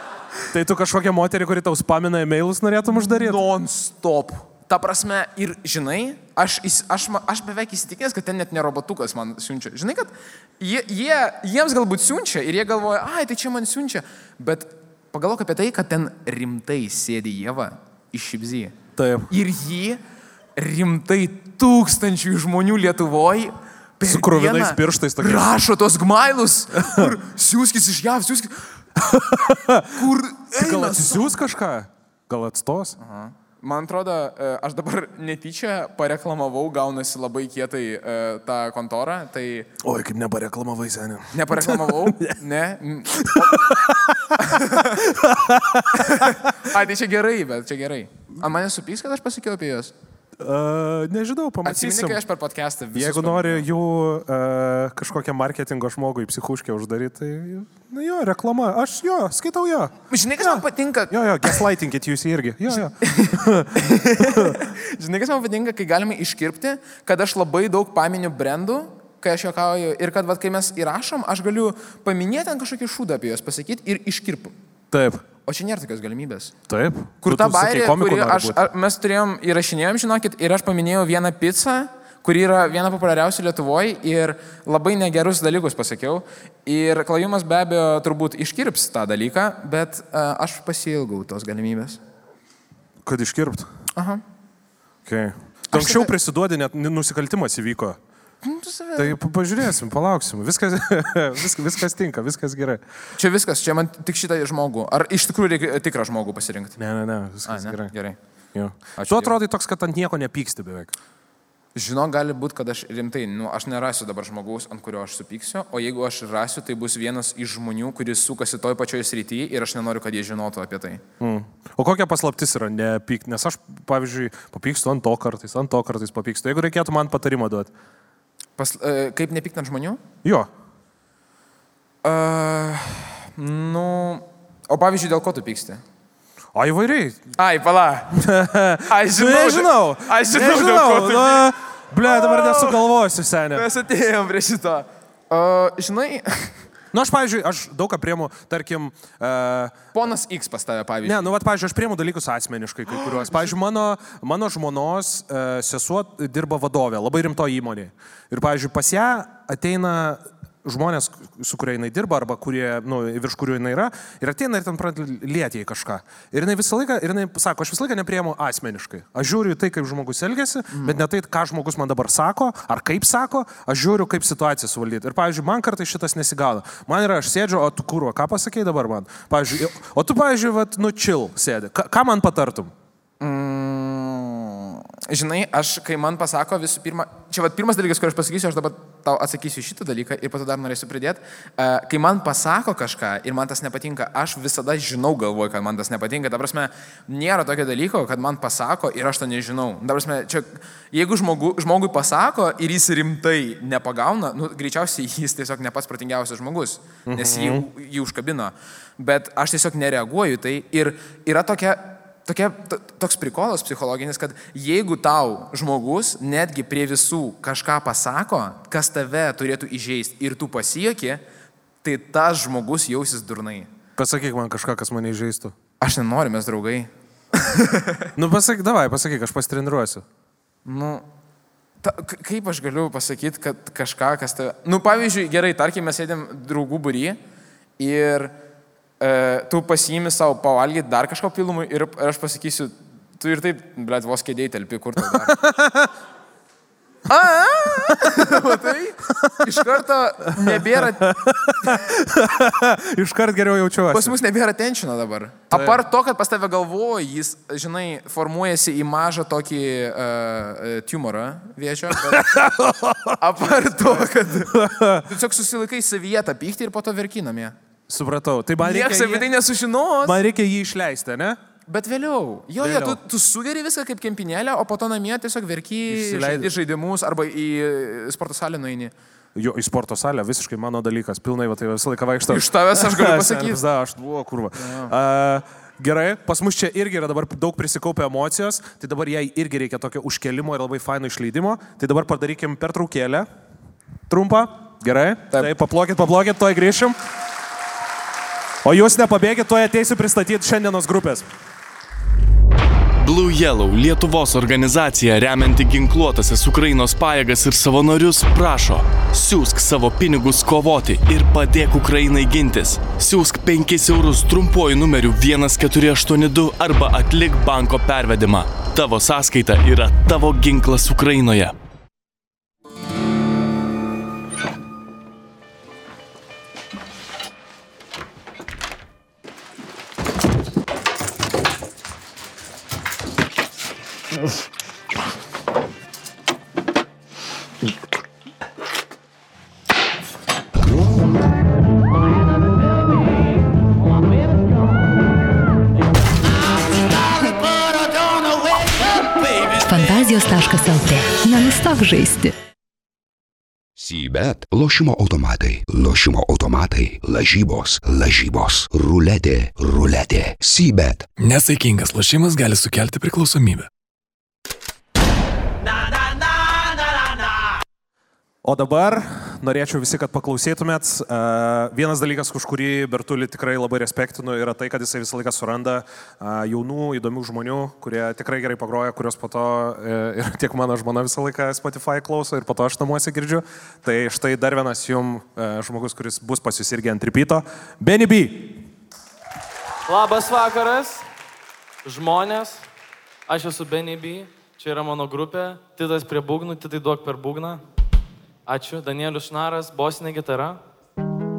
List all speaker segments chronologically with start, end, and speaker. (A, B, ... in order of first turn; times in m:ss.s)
0:00.5-0:03.4 A
0:02.9-0:18.7 B
0:19.0-0:19.3 A
0:19.3-0:20.0 B
0:20.6-0:28.8 B
0:24.0-0:25.5 A
0:26.7-0:27.1 A
0:29.0-0:33.0 A
0:29.9-0:31.4 B
0:33.0-0:39.7 B
0:39.8-0:42.4 A
0:41.3-0:43.7 B
0:43.1-0:46.5 A
0:44.4-0:45.0 B
0:45.9-0:49.9 B
0:50.4-0:52.2 A
0:51.6-0:53.7 B
0:52.9-1:04.6 A
1:00.1-1:01.6 B
1:03.0-1:14.5 B
1:14.9-1:15.2 A
1:15.4-1:16.5 B
1:16.7-1:18.6 A
1:17.2-1:32.0 B
1:33.0-1:33.7 A
1:33.9-1:34.2 B
1:35.0-1:38.0 A
1:35.7-1:36.1 B
1:38.4-1:39.2 B
1:39.0-1:42.8 A
1:43.2-1:46.8 B
1:46.8-1:47.9 A
1:47.4-1:48.2 B
1:48.5-1:50.9 A
1:48.9-1:49.4 B
1:51.7-2:01.0 B
2:01.2-2:07.7 A
2:08.6-2:10.0 B
2:10.2-2:10.5 A
2:12.0-2:15.8 B
2:16.5-2:17.2 A
2:17.4-2:18.2 B
2:18.1-2:23.6 A
2:18.8-2:21.5 B
2:22.0-2:22.9 B
2:23.5-2:26.6 B
2:26.9-2:29.7 A
2:29.9-2:31.3 B
2:31.0-3:02.7 A
2:32.9-2:33.5 B
2:50.7-2:51.0 B
3:03.2-3:41.2 B
3:27.1-3:27.6 A
3:41.8-3:43.7 B
3:44.0-3:45.5 A
3:45.8-3:48.1 B
3:48.1-3:50.0 A
3:50.6-3:51.0 B
3:51.8-3:57.2 B
3:57.8-3:58.3 B
3:59.0-4:05.4 B
4:05.0-4:05.9 A
4:07.1-4:09.6 A
4:07.3-4:11.8 B
4:10.2-4:14.2 A
4:13.9-4:22.4 B
4:15.5-4:15.8 A
4:21.9-4:25.1 A
4:23.2-4:27.6 B
4:27.9-4:29.3 A
4:28.6-4:30.2 B
4:30.0-4:31.4 A
4:31.7-4:38.9 B
4:32.6-4:33.0 A
4:35.9-4:36.5 A
4:39.3-4:53.3 A
4:42.3-4:43.6 B
4:44.5-4:44.9 B
4:54.1-4:57.0 A
4:58.6-5:01.2 A
5:03.0-5:21.5 C
5:49.5-5:52.3 D
5:53.8-6:01.1 E
6:01.2-6:03.7 F
6:08.4-6:28.6 A
6:29.8-6:31.0 G
6:31.8-6:32.6 G
6:33.3-6:37.6 G
6:38.4-6:40.6 G